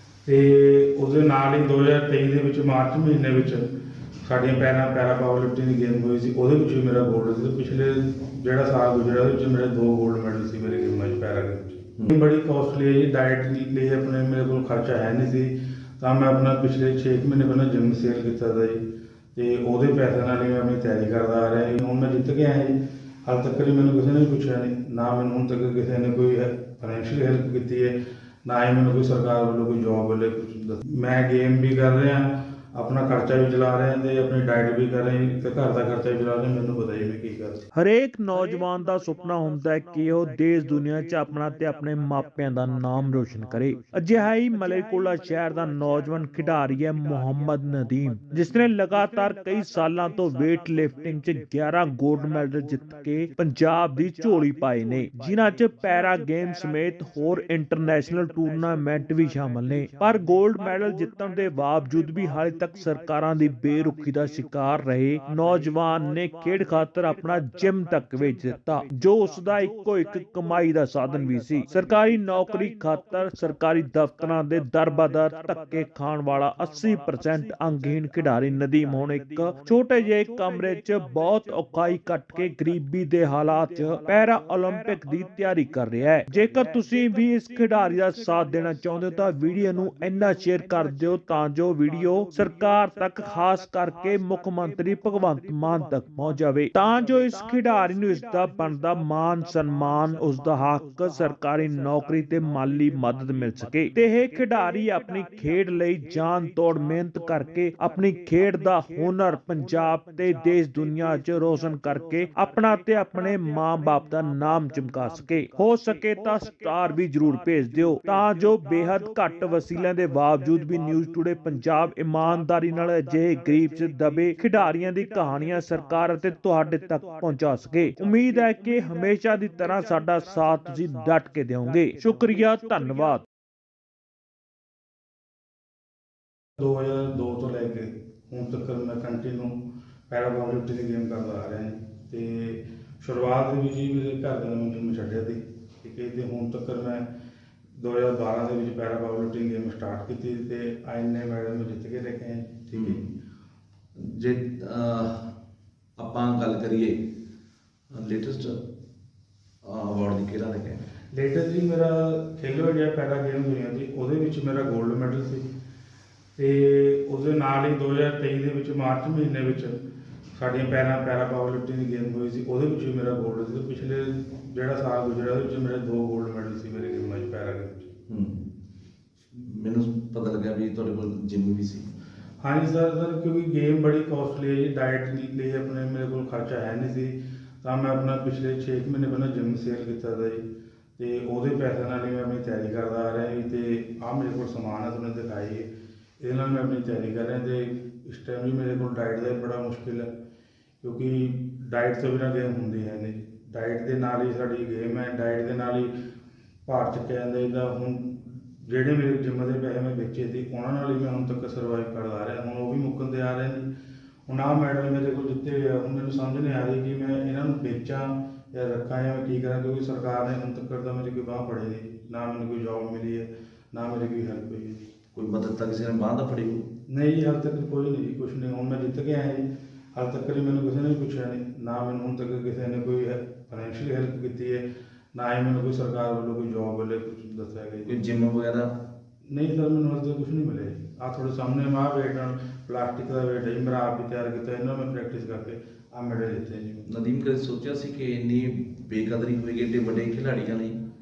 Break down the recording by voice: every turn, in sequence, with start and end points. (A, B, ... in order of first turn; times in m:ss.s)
0:00.3-0:03.7 A
0:04.2-0:18.8 A
0:19.4-0:37.6 A
0:37.7-2:13.2 B
2:16.6-2:19.6 A
2:20.1-2:27.1 A
2:27.8-2:33.0 A
2:32.7-2:33.0 C
2:34.0-2:35.3 C
2:36.0-2:37.0 C
2:37.9-2:38.6 C
2:39.6-2:40.8 C
2:41.1-2:45.4 A
2:46.4-2:49.8 A
2:50.4-2:57.9 A
2:58.1-2:58.5 C
2:59.3-3:01.9 C
3:02.4-3:10.4 A
3:11.0-3:15.7 A
3:16.2-3:20.1 A
3:20.8-3:25.9 A
3:26.7-3:33.7 A
3:34.3-3:44.8 A
3:45.1-3:46.6 C
3:46.9-3:57.9 A
3:57.8-3:58.7 C
3:59.3-4:06.9 A
4:06.9-4:10.8 C